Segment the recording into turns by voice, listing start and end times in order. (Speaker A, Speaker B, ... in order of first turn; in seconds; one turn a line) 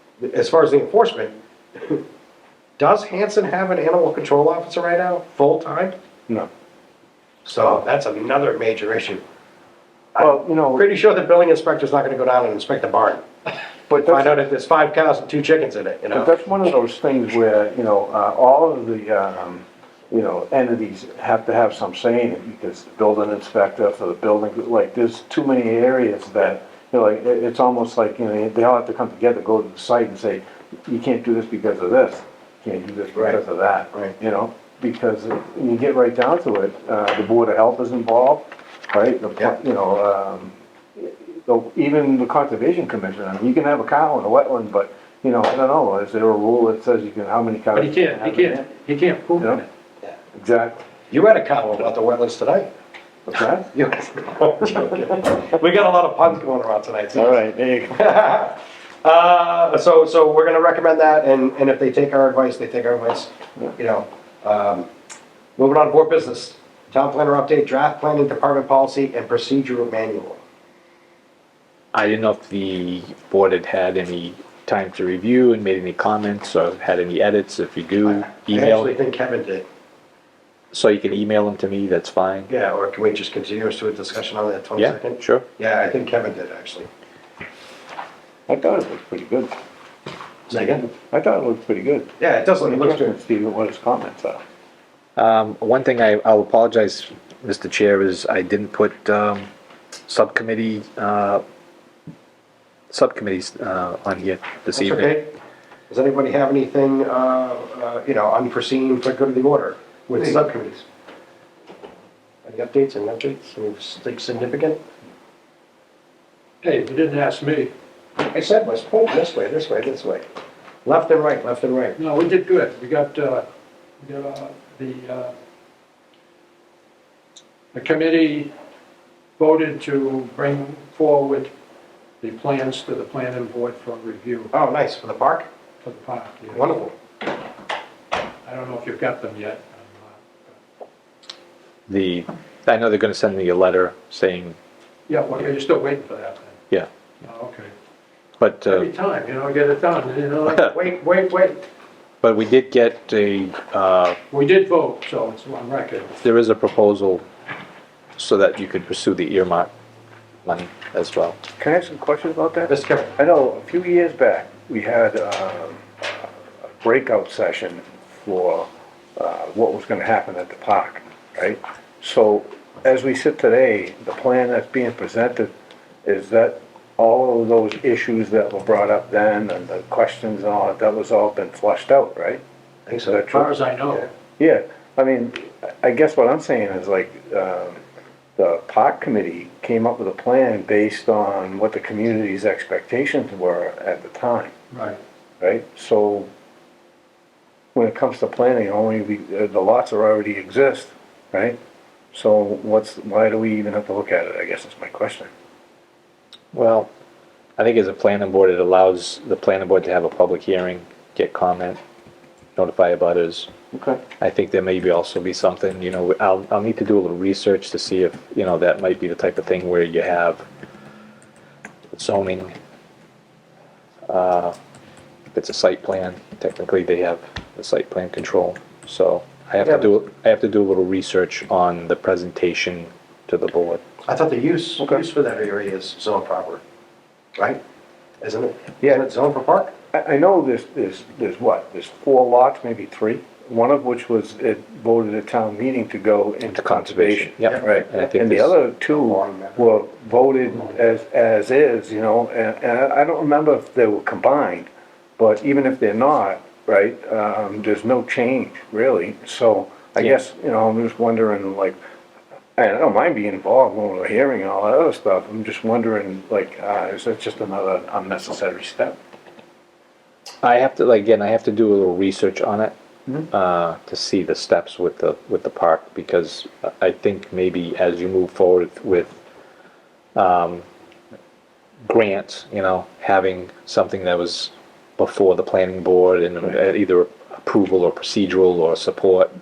Speaker A: 0.2-2.0
Speaker A: 2.8-5.9
Speaker A: 7.4-9.2
Speaker A: 10.1-13.2
Speaker B: 10.2-10.9
Speaker B: 13.9-14.4
Speaker A: 14.0-16.3
Speaker B: 16.1-48.7
Speaker C: 47.7-49.7
Speaker B: 50.3-50.8
Speaker A: 51.1-52.7
Speaker B: 53.3-53.7
Speaker A: 53.7-57.4
Speaker B: 57.1-58.1
Speaker A: 57.9-64.9
Speaker A: 65.6-70.4
Speaker D: 71.9-78.9
Speaker A: 78.0-79.7
Speaker D: 80.7-82.5
Speaker A: 82.5-86.9
Speaker D: 84.8-85.5
Speaker B: 88.5-89.5
Speaker A: 90.5-90.9
Speaker B: 90.5-94.4
Speaker A: 92.2-93.2
Speaker D: 95.2-99.5
Speaker D: 100.1-101.4
Speaker D: 102.9-105.2
Speaker A: 104.7-105.3
Speaker A: 105.9-110.8
Speaker A: 112.4-114.8
Speaker C: 116.6-117.7
Speaker A: 118.3-120.2
Speaker A: 120.8-122.0
Speaker C: 122.0-123.5
Speaker C: 124.0-125.3
Speaker C: 127.7-128.5
Speaker C: 129.4-131.5
Speaker C: 132.2-134.5
Speaker A: 134.5-135.5
Speaker C: 135.8-136.6
Speaker A: 136.5-136.9
Speaker C: 138.4-140.5
Speaker D: 141.9-144.6
Speaker C: 145.1-146.6
Speaker C: 147.2-147.7
Speaker D: 148.4-148.9
Speaker C: 148.7-151.6
Speaker D: 152.2-154.2
Speaker C: 154.3-156.1
Speaker D: 156.2-157.2
Speaker D: 158.2-159.7
Speaker D: 160.4-161.4
Speaker B: 161.6-175.5
Speaker A: 162.7-163.1
Speaker B: 176.0-182.4
Speaker A: 182.9-183.3
Speaker B: 183.1-183.5
Speaker C: 183.3-184.1
Speaker B: 184.4-187.8
Speaker B: 188.4-194.5
Speaker C: 194.7-195.0
Speaker B: 195.4-196.3
Speaker B: 197.7-201.6
Speaker B: 202.1-205.3
Speaker D: 206.5-206.9
Speaker D: 207.6-211.8
Speaker D: 212.6-213.5
Speaker B: 213.7-214.0
Speaker D: 214.2-220.4
Speaker D: 221.9-222.5
Speaker D: 224.1-224.6
Speaker D: 225.3-233.8
Speaker A: 229.6-229.9
Speaker A: 234.1-236.6
Speaker B: 234.8-235.0
Speaker A: 238.2-239.7
Speaker B: 238.8-239.1
Speaker B: 239.9-261.8
Speaker D: 246.5-248.5
Speaker A: 247.4-248.1
Speaker A: 248.9-249.8
Speaker B: 262.6-268.9
Speaker D: 270.4-272.7
Speaker D: 273.3-279.2
Speaker D: 280.1-280.6
Speaker D: 281.9-289.3